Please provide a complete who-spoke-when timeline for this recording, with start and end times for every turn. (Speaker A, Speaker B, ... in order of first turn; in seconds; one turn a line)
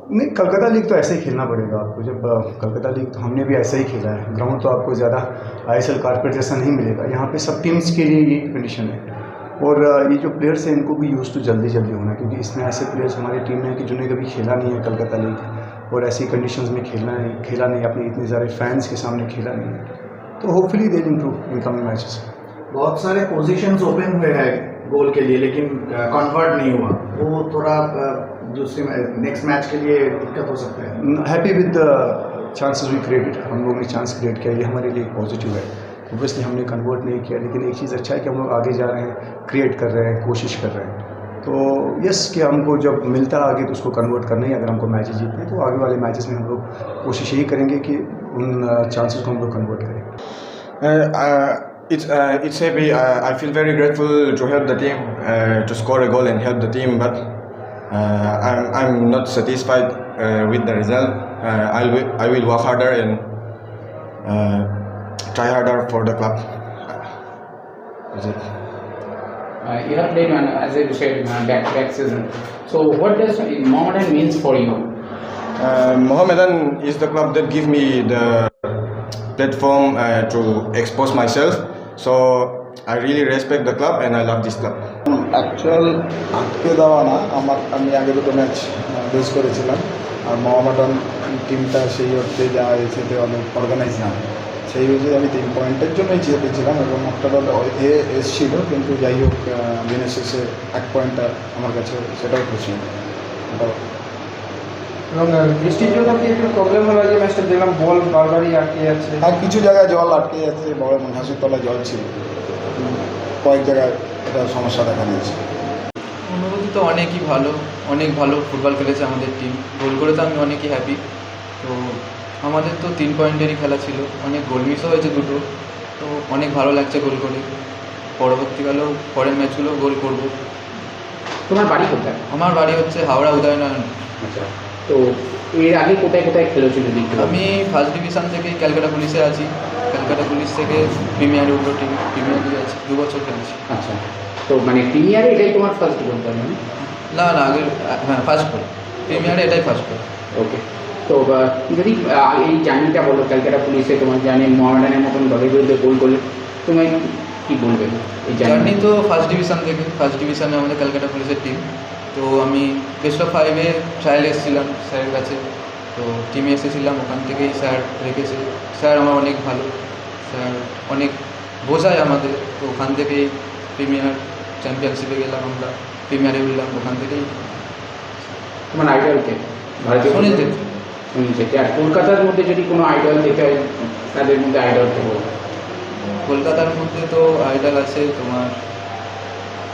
Speaker A: 0.1-9.1
Speaker A: 9.6-19.9
Speaker A: 20.4-22.3
Speaker B: 22.7-31.0
Speaker A: 31.0-50.1
Speaker C: 50.8-63.3
Speaker C: 64.2-67.2
Speaker C: 68.1-68.5
Speaker D: 69.6-74.9
Speaker C: 75.6-84.9
Speaker E: 85.1-102.9
Speaker E: 103.5-103.8
Speaker F: 105.1-109.2
Speaker E: 109.2-112.0
Speaker E: 112.7-115.4
Speaker G: 116.3-121.0
Speaker G: 121.6-125.4
Speaker G: 126.0-127.5
Speaker G: 128.2-130.3
Speaker D: 131.5-132.2
Speaker G: 132.3-133.9
Speaker D: 134.2-137.4
Speaker G: 137.2-143.6
Speaker D: 143.7-146.6
Speaker G: 146.8-150.0
Speaker D: 149.1-149.4
Speaker D: 150.3-158.8
Speaker G: 158.4-165.4
Speaker G: 165.9-177.6
Speaker D: 178.7-180.5
Speaker G: 180.1-180.6
Speaker D: 181.1-185.3
Speaker G: 186.2-188.5